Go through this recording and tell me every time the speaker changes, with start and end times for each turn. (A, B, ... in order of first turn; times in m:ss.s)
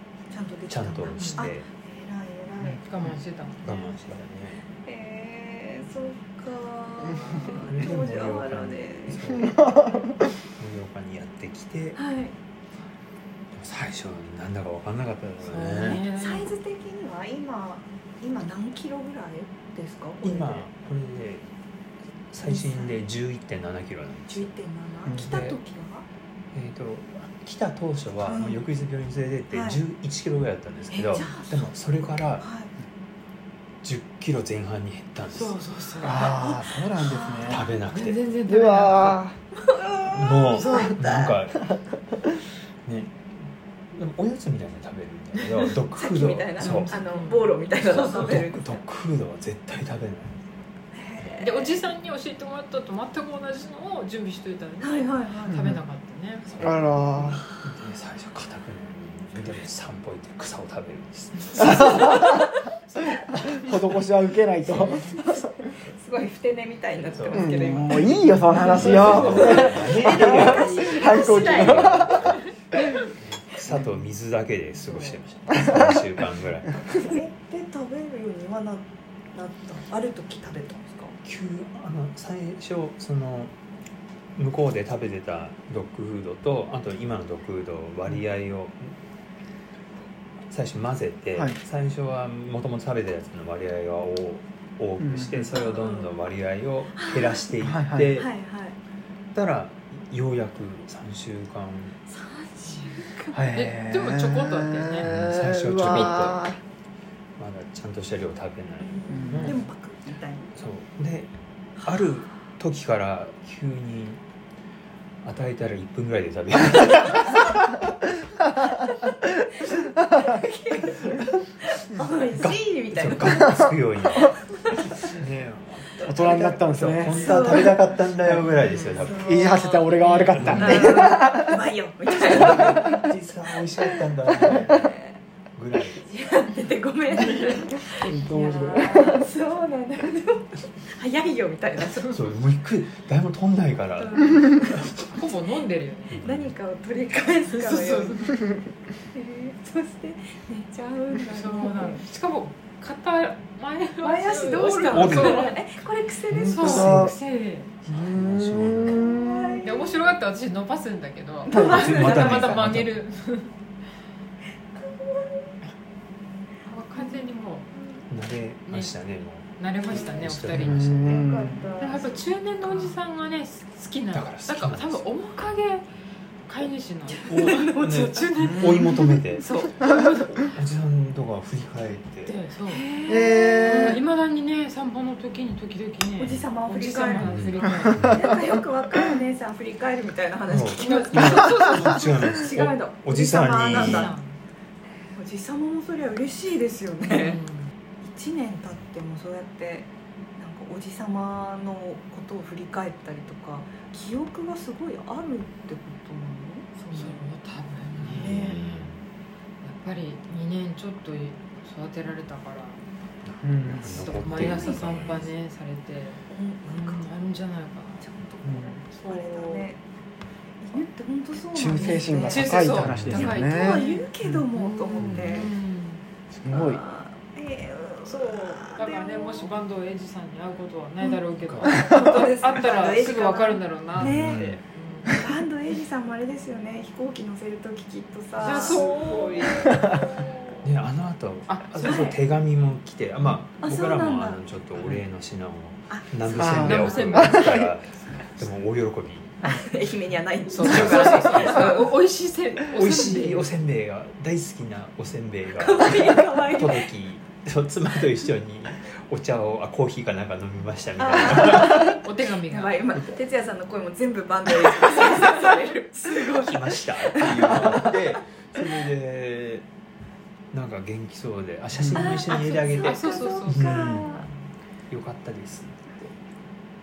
0:00.3-0:02.8 A
0:00.7-0:01.7 B
0:01.1-0:01.5 C
0:02.6-0:03.7 C
0:03.6-0:04.6 B
0:04.8-0:09.3 A
0:07.5-0:09.7 B
0:09.3-0:10.3 D
0:10.6-0:12.0 B
0:12.0-0:12.3 A
0:13.5-0:16.0 B
0:15.4-0:16.5 C
0:15.8-0:20.7 A
0:20.2-0:21.4 B
0:22.3-0:24.5 B
0:22.4-0:22.9 A
0:24.3-0:26.0 A
0:25.0-0:25.4 D
0:25.1-0:25.6 B
0:26.5-0:32.5 B
0:28.2-0:28.6 A
0:29.5-0:29.8 A
0:30.9-0:31.7 A
0:32.4-0:32.7 A
0:33.8-0:35.6 B
0:35.3-0:36.7 C
0:36.0-0:37.6 D
0:36.1-0:37.6 A
0:37.4-0:38.2 B
0:37.9-0:39.2 C
0:38.5-0:39.4 D
0:39.6-0:41.1 A
0:40.1-0:41.7 B
0:40.5-0:41.0 C
0:42.8-0:43.2 B
0:43.9-0:46.9 B
0:45.9-0:48.8 A
0:46.6-0:48.3 C
0:47.8-0:50.4 B
0:50.9-0:51.8 A
0:51.4-0:56.5 C
0:54.8-0:55.6 A
0:55.5-0:55.8 D
0:56.5-1:02.5 B
0:56.6-0:57.4 D
1:01.6-1:02.4 D
1:03.3-1:05.5 D
1:04.7-1:12.3 A
1:04.7-1:05.1 C
1:07.1-1:12.5 B
1:07.3-1:12.8 D
1:13.1-1:16.8 B
1:14.8-1:15.2 C
1:15.6-1:16.0 D
1:16.9-1:21.1 A
1:21.2-1:23.5 B
1:24.4-1:28.9 B
1:30.5-1:38.3 B
1:35.0-1:35.5 D
1:35.6-1:36.1 A
1:37.0-1:37.4 A
1:37.6-1:38.1 D
1:38.1-1:38.8 A
1:39.3-1:42.0 B
1:42.1-1:43.5 A
1:43.3-1:46.6 D
1:43.5-1:45.0 C
1:45.0-1:46.4 B
1:47.4-1:49.7 B
1:48.8-1:50.5 A
1:49.1-1:49.6 D
1:50.5-1:51.3 B
1:51.8-1:54.2 B
1:55.2-1:57.7 B
1:58.7-2:03.6 A
2:02.3-2:09.4 B
2:04.5-2:05.1 A
2:06.0-2:07.7 D
2:06.9-2:09.8 A
2:08.6-2:10.7 C
2:09.2-2:11.6 D
2:10.3-2:11.2 B
2:10.5-2:13.1 A
2:12.2-2:16.1 B
2:12.6-2:13.0 D
2:14.3-2:15.2 A
2:15.9-2:22.1 A
2:17.9-2:19.3 D
2:22.1-2:25.1 B
2:24.0-2:24.9 A
2:25.1-2:26.2 C
2:26.2-2:28.4 A
2:26.2-2:26.5 B
2:27.5-2:28.4 C
2:29.1-2:32.0 A
2:31.2-2:35.6 C
2:34.0-2:37.0 A
2:34.9-2:35.7 B
2:36.3-2:37.1 B
2:36.5-2:37.7 C
2:36.6-2:37.1 D
2:37.8-2:39.0 B
2:37.9-2:39.6 D
2:38.9-2:40.1 A
2:39.6-2:43.5 C
2:41.4-2:42.5 A
2:41.5-2:43.0 B
2:44.8-2:45.6 A
2:46.7-2:47.7 C
2:48.1-2:51.3 B
2:48.7-2:48.9 C
2:49.6-2:50.8 C
2:49.8-2:53.0 A
2:50.6-2:51.7 D
2:51.8-2:55.9 C
2:54.1-2:55.0 B
2:56.5-2:59.0 C
2:57.1-3:00.5 A
2:57.3-2:59.5 B
2:58.4-2:58.8 D
3:00.4-3:02.4 B
3:02.2-3:02.9 C
3:02.7-3:04.0 A
3:03.1-3:04.0 D
3:03.6-3:08.4 C
3:06.2-3:14.1 A
3:07.2-3:08.2 B
3:10.5-3:14.1 B
3:10.8-3:12.1 C
3:13.7-3:14.4 C
3:15.1-3:17.4 A
3:17.1-3:17.7 C
3:18.0-3:27.2 A
3:26.8-3:28.9 C
3:28.0-3:29.0 B
3:28.2-3:28.6 A
3:29.6-3:32.8 C
3:33.2-3:35.3 B
3:33.4-3:34.1 D
3:33.8-3:38.1 C
3:34.4-3:34.8 A
3:36.3-3:37.0 A
3:38.0-3:39.8 A
3:38.4-3:38.8 D
3:39.0-3:39.7 C
3:40.6-3:45.5 A
3:41.5-3:43.9 D
3:41.7-3:46.0 C
3:42.6-3:43.4 B
3:45.0-3:45.5 D
3:46.4-3:46.8 D
3:46.5-3:49.5 A
3:48.0-3:55.2 C
3:51.4-3:51.8 B
3:51.8-4:00.0 A
3:54.0-3:54.6 B
3:58.4-4:00.7 C
4:00.6-4:09.5 B
4:01.5-4:02.2 C
4:01.8-4:02.2 A
4:03.6-4:04.4 A
4:05.9-4:07.3 A
4:06.4-4:07.7 D
4:06.6-4:07.4 C
4:09.4-4:11.9 A
4:10.5-4:13.5 C
4:10.6-4:11.7 B
4:12.7-4:22.0 B
4:15.6-4:16.9 A
4:21.0-4:28.2 A
4:21.3-4:22.9 C
4:26.3-4:29.6 B
4:30.5-4:34.1 B
4:31.9-4:34.3 A
4:32.3-4:34.3 C
4:34.9-4:36.1 B